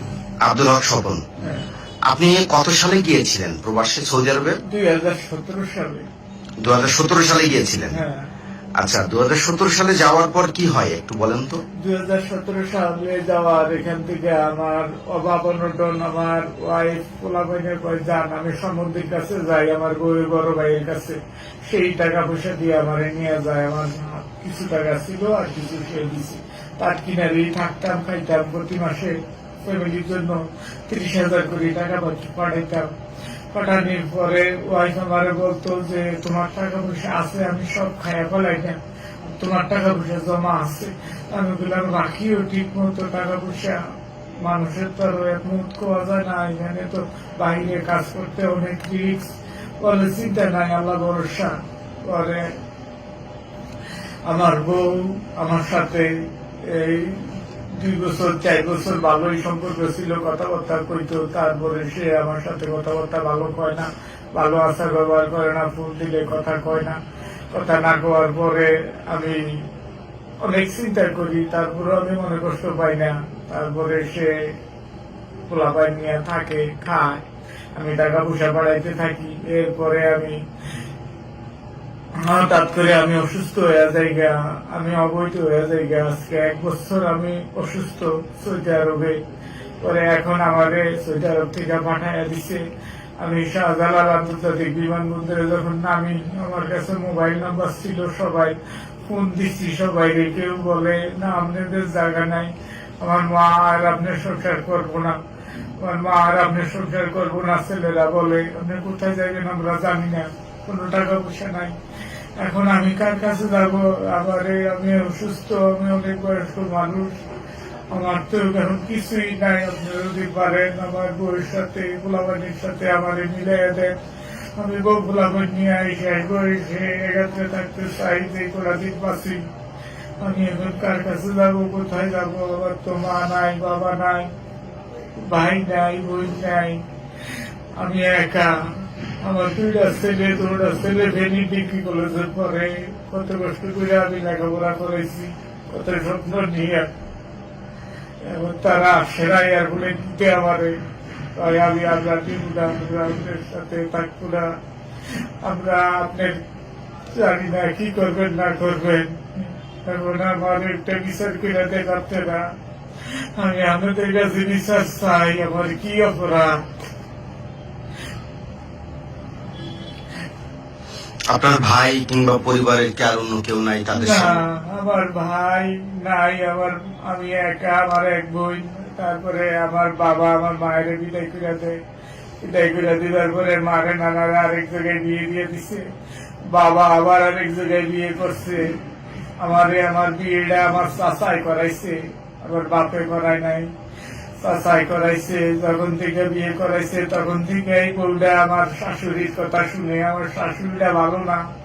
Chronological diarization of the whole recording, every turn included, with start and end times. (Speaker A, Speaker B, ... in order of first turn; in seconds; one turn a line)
Speaker A: 0.5-1.2
Speaker A: 2.1-4.6
Speaker B: 4.7-6.0
Speaker A: 6.6-8.0
Speaker B: 7.9-8.3
Speaker A: 8.8-11.6
Speaker B: 11.8-32.9
Speaker B: 33.5-43.8
Speaker B: 44.4-51.5
Speaker B: 52.1-52.4
Speaker B: 54.3-56.1
Speaker B: 56.6-67.0
Speaker B: 67.5-69.6
Speaker B: 70.4-74.3
Speaker B: 75.5-80.3
Speaker B: 82.2-89.2
Speaker B: 89.8-92.6
Speaker B: 93.2-102.5
Speaker B: 103.0-105.2
Speaker B: 105.8-111.7
Speaker B: 112.4-117.2
Speaker B: 117.9-123.9
Speaker B: 124.6-129.4
Speaker B: 130.2-134.3
Speaker B: 135.2-136.8
Speaker B: 137.8-146.9
Speaker B: 148.2-150.7
Speaker B: 151.3-154.4
Speaker B: 155.4-156.4
Speaker B: 157.1-162.4
Speaker B: 163.4-166.9
Speaker A: 171.3-174.4
Speaker B: 173.9-181.8
Speaker B: 182.4-185.9
Speaker B: 186.4-188.8
Speaker B: 189.4-193.7
Speaker B: 194.4-201.4